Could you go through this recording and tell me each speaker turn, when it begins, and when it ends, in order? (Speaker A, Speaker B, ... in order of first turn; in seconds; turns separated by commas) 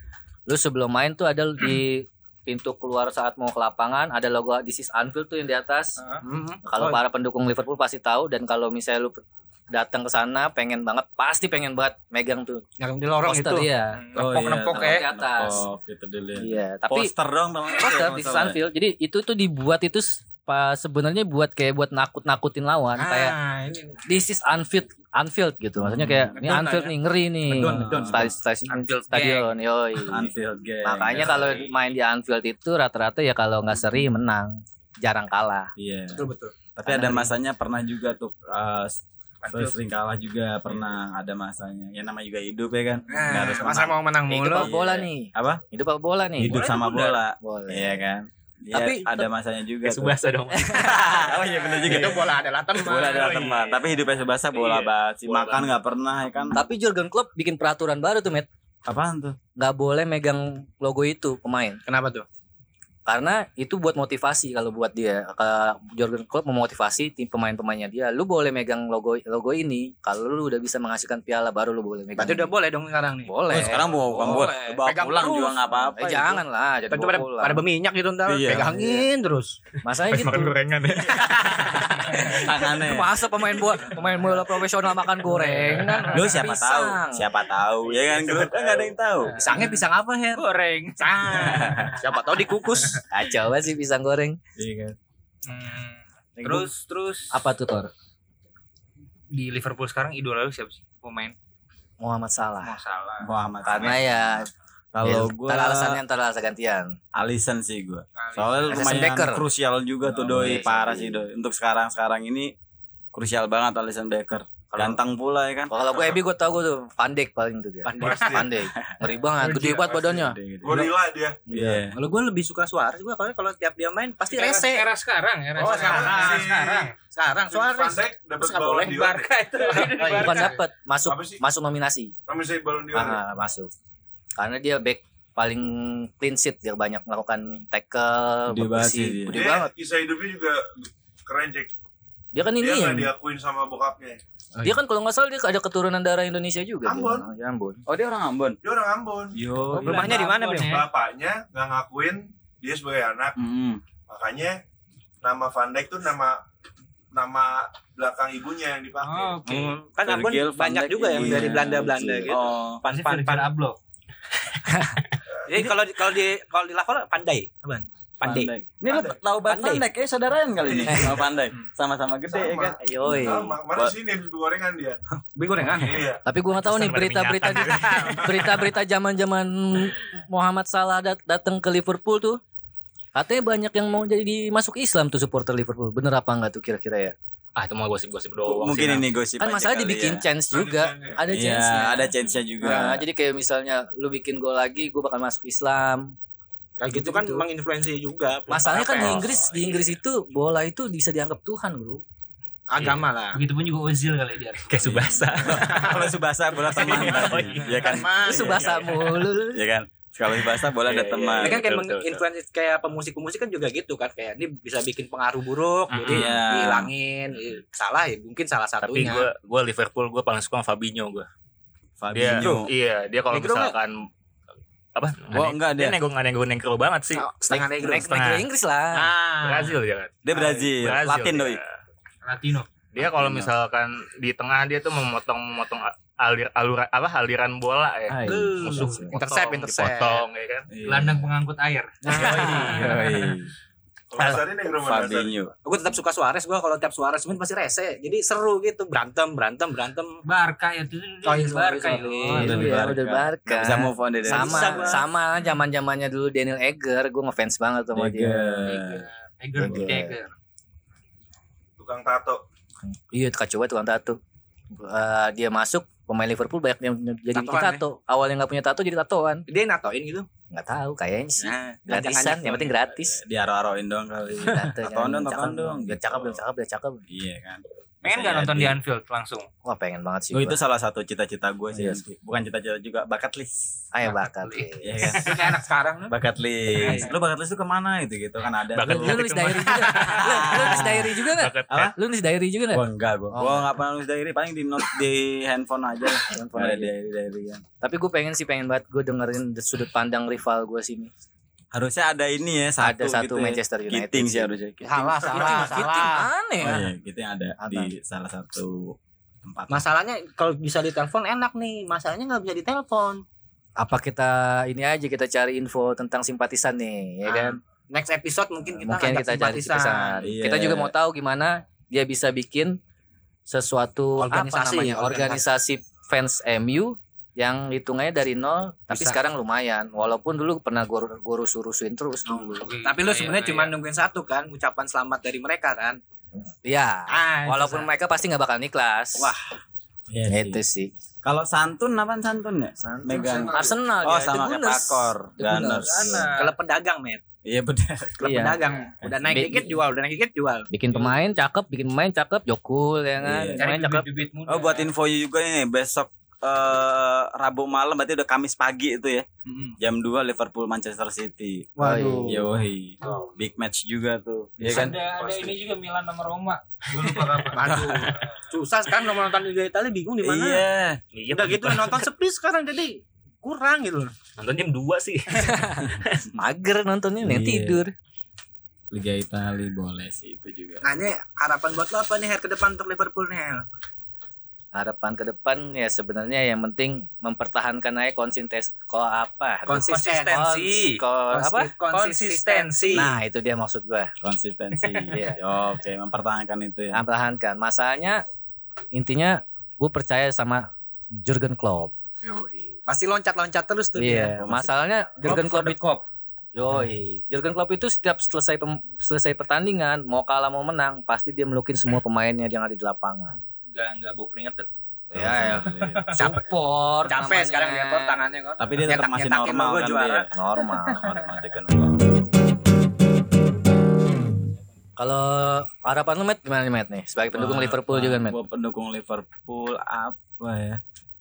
Speaker A: 0.5-6.0, Speaker B: 6.0-6.2, Speaker C: 6.2-7.0, Speaker A: 6.6-12.6, Speaker C: 12.8-13.7, Speaker A: 13.2-14.0, Speaker B: 13.9-15.0, Speaker D: 14.1-18.6, Speaker A: 14.6-15.6, Speaker A: 16.4-17.1, Speaker A: 17.7-23.4, Speaker C: 23.0-24.0, Speaker A: 24.0-30.3, Speaker D: 25.8-26.4, Speaker C: 26.3-26.8, Speaker B: 26.4-26.9, Speaker C: 27.5-28.3, Speaker D: 27.6-28.3, Speaker B: 28.7-29.5, Speaker D: 30.1-31.6, Speaker A: 30.8-35.7, Speaker D: 35.8-45.6, Speaker C: 36.1-36.5, Speaker A: 36.8-37.3, Speaker B: 39.4-39.8, Speaker C: 43.1-44.7, Speaker A: 44.3-46.6, Speaker D: 46.4-56.6, Speaker B: 46.6-47.0, Speaker E: 46.7-47.0, Speaker A: 47.4-48.0, Speaker A: 48.7-49.2, Speaker E: 49.8-50.9, Speaker A: 50.5-51.1, Speaker C: 51.7-53.5, Speaker E: 52.9-53.9, Speaker E: 54.5-55.7, Speaker A: 56.5-58.5, Speaker D: 58.8-59.4, Speaker A: 59.6-61.8, Speaker C: 61.9-62.2, Speaker A: 63.0-72.5, Speaker C: 72.2-79.6, Speaker A: 73.2-73.9, Speaker D: 73.5-76.3, Speaker A: 76.0-77.6, Speaker D: 78.2-78.9, Speaker A: 78.5-79.0, Speaker A: 79.8-80.6, Speaker E: 80.1-81.8, Speaker A: 81.5-87.3, Speaker D: 82.0-83.2, Speaker B: 85.2-86.3, Speaker D: 86.1-89.4, Speaker B: 89.3-92.0, Speaker C: 89.4-90.5, Speaker C: 91.0-93.0, Speaker D: 91.3-92.0, Speaker A: 93.1-94.4, Speaker D: 94.5-95.0, Speaker B: 95.4-97.4, Speaker A: 96.4-96.7, Speaker A: 97.3-97.9, Speaker B: 99.3-101.3, Speaker A: 102.0-102.8, Speaker B: 102.6-103.3, Speaker D: 103.2-104.4, Speaker A: 103.6-104.5, Speaker D: 104.9-106.0, Speaker A: 105.0-107.0, Speaker D: 107.1-112.5, Speaker B: 108.2-108.8, Speaker A: 108.7-109.4, Speaker A: 110.1-111.2, Speaker D: 113.1-116.1, Speaker A: 115.7-120.9, Speaker C: 117.8-118.5, Speaker F: 118.0-118.5, Speaker D: 119.5-120.9, Speaker F: 120.6-121.4, Speaker A: 121.5-121.8, Speaker D: 121.5-122.0, Speaker C: 121.9-124.9, Speaker B: 124.3-126.7, Speaker C: 125.5-129.1, Speaker F: 125.6-126.9, Speaker F: 127.5-130.2, Speaker B: 129.0-130.6, Speaker C: 129.6-130.4, Speaker A: 130.2-132.1, Speaker F: 131.0-131.4, Speaker F: 132.3-133.2, Speaker A: 132.9-133.7, Speaker A: 134.4-139.7, Speaker D: 138.5-139.4, Speaker F: 139.3-141.7, Speaker A: 142.3-143.1, Speaker F: 142.6-144.2, Speaker A: 144.6-147.8, Speaker F: 146.8-147.3, Speaker D: 147.9-148.6, Speaker F: 148.6-149.4, Speaker D: 149.3-150.2, Speaker B: 149.7-150.8, Speaker C: 149.8-150.8, Speaker F: 150.6-153.4, Speaker D: 153.4-153.8, Speaker F: 154.1-154.6, Speaker F: 155.2-156.4, Speaker F: 157.1-159.4, Speaker B: 159.0-159.8, Speaker C: 159.4-163.5, Speaker D: 160.0-162.8, Speaker A: 161.2-162.3, Speaker B: 162.8-163.8, Speaker C: 165.5-168.5, Speaker D: 168.2-173.9, Speaker F: 168.9-169.2, Speaker C: 169.4-169.8, Speaker F: 170.6-171.3, Speaker F: 172.3-175.0, Speaker A: 172.8-173.6, Speaker C: 175.3-176.0, Speaker F: 175.8-176.2, Speaker A: 176.2-182.4, Speaker E: 176.5-178.6, Speaker A: 183.1-187.1, Speaker E: 187.6-189.1, Speaker D: 188.5-190.2, Speaker A: 189.4-196.1, Speaker F: 190.5-191.2, Speaker D: 191.3-193.0, Speaker C: 192.7-193.0, Speaker C: 196.8-199.9, Speaker A: 196.9-197.4, Speaker A: 198.5-202.0, Speaker D: 199.0-199.3, Speaker C: 202.7-203.4, Speaker E: 202.8-203.0, Speaker B: 203.3-205.1, Speaker E: 204.7-206.0, Speaker D: 204.8-208.8, Speaker E: 206.6-208.0, Speaker B: 206.9-207.7, Speaker C: 207.7-208.8, Speaker A: 208.1-209.6, Speaker D: 209.5-211.6, Speaker E: 210.8-212.2, Speaker C: 211.4-219.3, Speaker E: 215.9-216.3, Speaker D: 216.1-216.9, Speaker E: 218.8-221.3, Speaker D: 222.0-222.7, Speaker E: 222.1-223.9, Speaker C: 223.3-223.8, Speaker E: 224.9-227.3, Speaker D: 225.3-226.0, Speaker C: 227.1-228.1, Speaker A: 227.5-229.1, Speaker E: 227.9-228.5, Speaker C: 228.9-229.8, Speaker E: 229.4-231.7, Speaker D: 230.2-231.6, Speaker B: 232.2-232.7, Speaker E: 232.9-240.7, Speaker D: 233.0-233.5, Speaker A: 238.1-239.1, Speaker B: 238.2-239.1, Speaker C: 239.1-240.2, Speaker D: 240.7-241.3, Speaker B: 240.8-242.8, Speaker A: 242.0-243.2, Speaker D: 242.1-243.5, Speaker F: 244.1-245.3, Speaker D: 244.7-245.5, Speaker C: 245.6-250.2, Speaker B: 250.2-252.6, Speaker C: 251.2-252.6, Speaker D: 252.3-255.0, Speaker A: 252.3-258.7, Speaker C: 254.2-255.1, Speaker D: 257.9-259.0, Speaker B: 258.6-260.3, Speaker A: 259.6-260.2, Speaker D: 259.6-259.8, Speaker F: 261.8-262.4, Speaker A: 262.9-264.2, Speaker A: 264.7-269.4, Speaker C: 267.3-267.8, Speaker C: 269.5-270.2, Speaker A: 270.5-273.2, Speaker C: 271.4-272.7, Speaker D: 273.0-276.4, Speaker A: 274.4-277.0, Speaker D: 277.1-278.8, Speaker B: 278.0-279.5, Speaker A: 279.6-280.6, Speaker D: 280.3-283.8, Speaker A: 281.7-282.0, Speaker A: 283.9-285.1, Speaker B: 284.0-286.1, Speaker D: 284.8-285.5, Speaker D: 286.1-289.2, Speaker B: 286.8-287.1, Speaker E: 288.7-291.9, Speaker A: 288.8-293.7, Speaker B: 289.1-290.1, Speaker D: 290.1-291.9, Speaker D: 292.7-297.6, Speaker A: 296.3-296.9, Speaker A: 297.8-301.1, Speaker D: 301.7-305.9, Speaker A: 302.8-304.5, Speaker C: 304.8-306.3, Speaker A: 305.3-306.8, Speaker D: 306.6-309.9, Speaker A: 307.6-307.9, Speaker C: 309.7-313.2, Speaker A: 313.8-317.6, Speaker C: 317.2-320.2, Speaker A: 318.8-322.8, Speaker D: 320.2-320.9, Speaker A: 323.5-332.6, Speaker C: 324.2-325.4, Speaker C: 328.9-329.2, Speaker C: 332.3-336.0, Speaker B: 332.6-333.7, Speaker A: 336.6-339.3, Speaker C: 337.1-337.9, Speaker D: 339.1-339.5, Speaker D: 340.1-340.6, Speaker A: 340.3-340.9, Speaker D: 341.2-346.3, Speaker A: 342.8-346.3, Speaker B: 345.8-346.6, Speaker C: 346.3-347.2, Speaker D: 347.4-348.4, Speaker C: 348.2-350.7, Speaker A: 348.2-348.6, Speaker D: 349.0-349.5, Speaker A: 349.3-349.7, Speaker A: 350.7-354.1, Speaker D: 353.2-353.6, Speaker B: 353.6-354.9, Speaker D: 354.4-359.2, Speaker C: 359.5-359.8, Speaker D: 359.8-361.7, Speaker C: 361.8-362.4, Speaker A: 361.8-362.4, Speaker D: 362.3-365.5, Speaker B: 363.0-363.3, Speaker B: 364.6-368.1, Speaker F: 366.9-367.8, Speaker C: 367.5-370.6, Speaker D: 370.2-371.0, Speaker E: 371.1-372.1, Speaker C: 371.3-374.1, Speaker E: 374.4-376.1, Speaker A: 376.4-377.9, Speaker D: 377.2-377.8, Speaker D: 378.9-380.8, Speaker C: 380.8-383.6, Speaker A: 384.7-391.7, Speaker C: 389.7-390.4, Speaker B: 389.8-391.0, Speaker C: 391.3-393.1, Speaker B: 391.9-393.1, Speaker A: 392.9-394.1, Speaker D: 394.2-397.0, Speaker A: 395.1-395.4, Speaker A: 396.9-398.2, Speaker A: 398.9-401.9, Speaker C: 402.2-404.3, Speaker A: 403.9-405.8, Speaker D: 404.4-404.7, Speaker C: 405.3-405.7, Speaker B: 405.4-406.0, Speaker A: 406.6-413.4, Speaker B: 413.7-414.7, Speaker A: 415.1-418.2, Speaker D: 415.1-416.1, Speaker B: 415.6-416.2, Speaker C: 416.2-416.5, Speaker C: 417.0-420.3, Speaker D: 418.6-420.3, Speaker A: 420.3-421.1, Speaker D: 420.9-422.0, Speaker A: 425.0-428.4, Speaker D: 427.3-430.8